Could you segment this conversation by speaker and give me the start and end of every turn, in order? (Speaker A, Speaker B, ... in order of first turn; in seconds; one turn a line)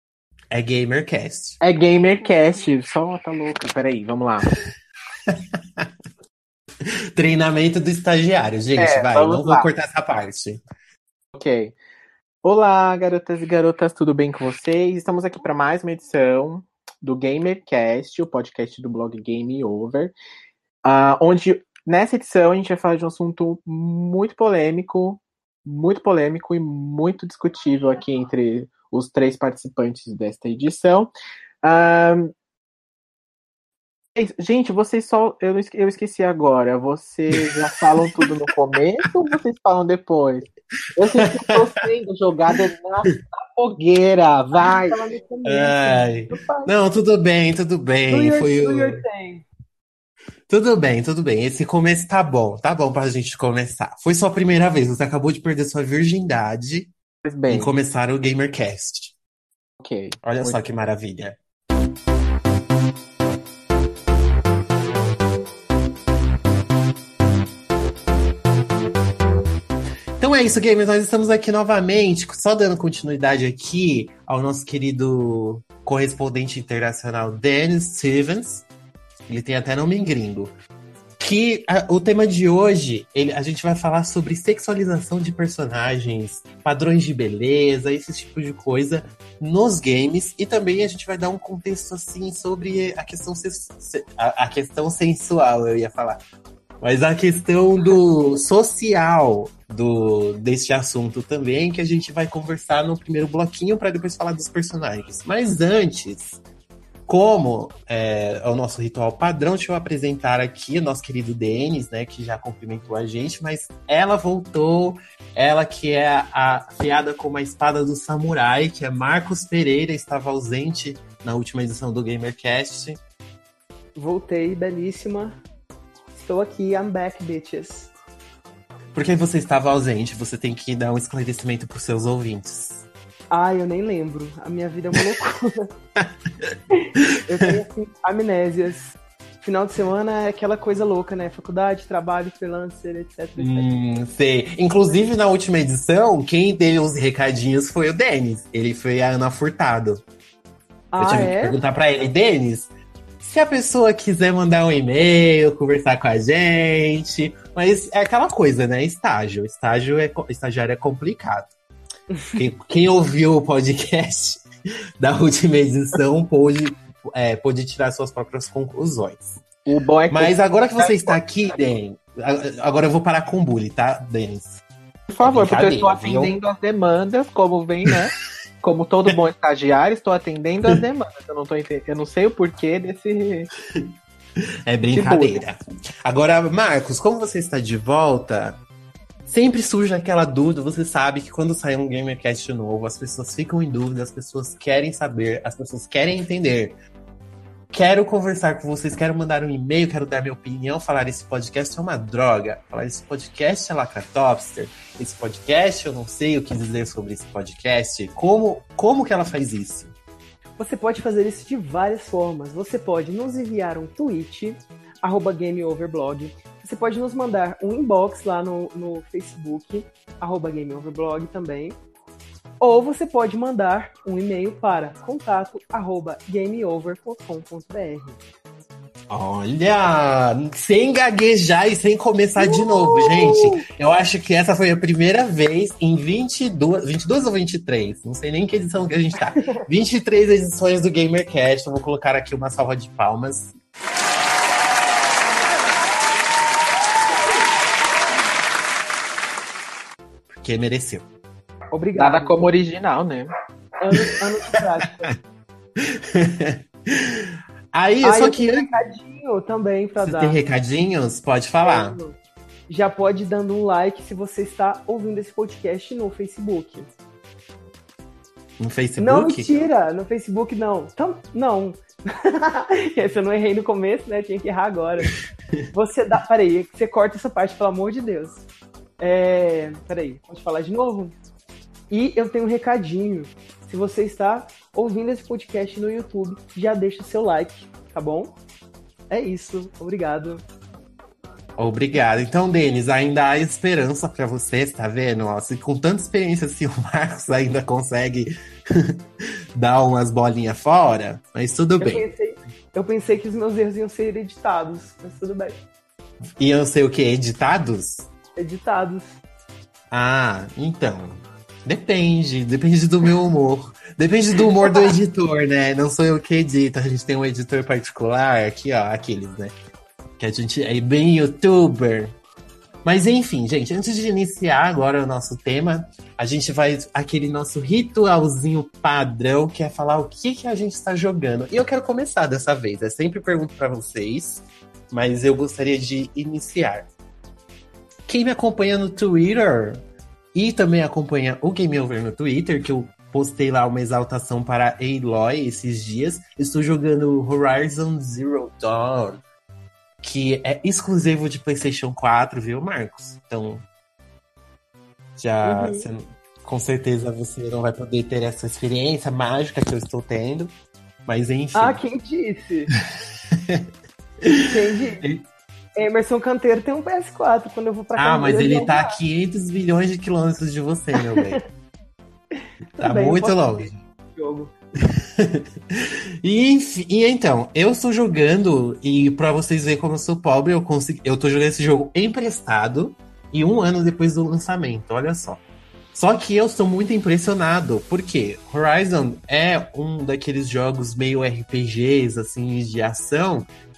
Speaker A: 0.5-1.6
Speaker B: 1.6-4.5
Speaker A: 5.3-5.9
Speaker A: 7.2-10.6
Speaker B: 8.8-9.7
Speaker B: 11.3-11.8
Speaker B: 12.4-20.1
Speaker B: 20.9-31.1
Speaker B: 31.6-32.3
Speaker B: 34.2-45.0
Speaker A: 41.1-41.8
Speaker C: 44.7-46.7
Speaker A: 45.5-49.0
Speaker C: 48.1-49.5
Speaker A: 50.5-56.9
Speaker B: 57.2-57.7
Speaker A: 57.5-59.1
Speaker B: 59.8-60.6
Speaker A: 60.2-61.4
Speaker A: 70.2-78.7
Speaker A: 79.3-80.5
Speaker A: 81.2-96.2
Speaker A: 96.8-106.4
Speaker A: 107.1-123.0
Speaker C: 124.0-125.4
Speaker C: 126.1-127.9
Speaker A: 128.9-132.8
Speaker C: 133.3-135.7
Speaker A: 136.0-137.5
Speaker C: 136.7-143.7
Speaker A: 143.4-150.0
Speaker C: 150.9-151.6
Speaker A: 151.0-161.5
Speaker C: 162.1-162.4
Speaker A: 162.3-164.4
Speaker A: 165.0-169.4
Speaker B: 169.7-171.2
Speaker A: 170.1-174.6
Speaker B: 175.1-183.5
Speaker A: 175.2-176.3
Speaker A: 184.7-188.6
Speaker B: 184.9-185.4
Speaker A: 189.3-196.8
Speaker A: 197.7-209.9
Speaker C: 210.6-221.8
Speaker C: 222.6-228.2
Speaker A: 229.1-243.5
Speaker C: 232.4-233.6
Speaker A: 250.3-251.1
Speaker C: 251.7-252.5
Speaker B: 252.0-253.3
Speaker C: 253.8-255.1
Speaker A: 255.8-258.7
Speaker C: 258.0-260.4
Speaker A: 260.0-262.0
Speaker C: 261.6-262.2
Speaker C: 262.7-266.9
Speaker A: 268.6-269.5
Speaker C: 269.0-275.1
Speaker C: 275.7-278.4
Speaker C: 279.0-281.1
Speaker C: 281.9-288.3
Speaker C: 289.1-290.4
Speaker A: 291.6-299.0
Speaker A: 299.6-302.1
Speaker C: 301.8-305.6
Speaker A: 306.4-308.1
Speaker C: 308.4-309.2
Speaker A: 309.9-319.5
Speaker A: 320.2-322.1
Speaker A: 322.9-336.9
Speaker A: 338.1-339.8
Speaker A: 340.3-349.2
Speaker A: 350.0-353.7
Speaker A: 355.2-360.5
Speaker C: 355.4-355.9
Speaker A: 361.1-361.8
Speaker C: 361.6-362.7
Speaker A: 363.3-363.7
Speaker C: 364.4-365.1
Speaker C: 365.8-368.9
Speaker A: 367.9-371.4
Speaker C: 372.4-374.5
Speaker A: 372.8-373.8
Speaker A: 375.2-385.4
Speaker A: 385.9-393.5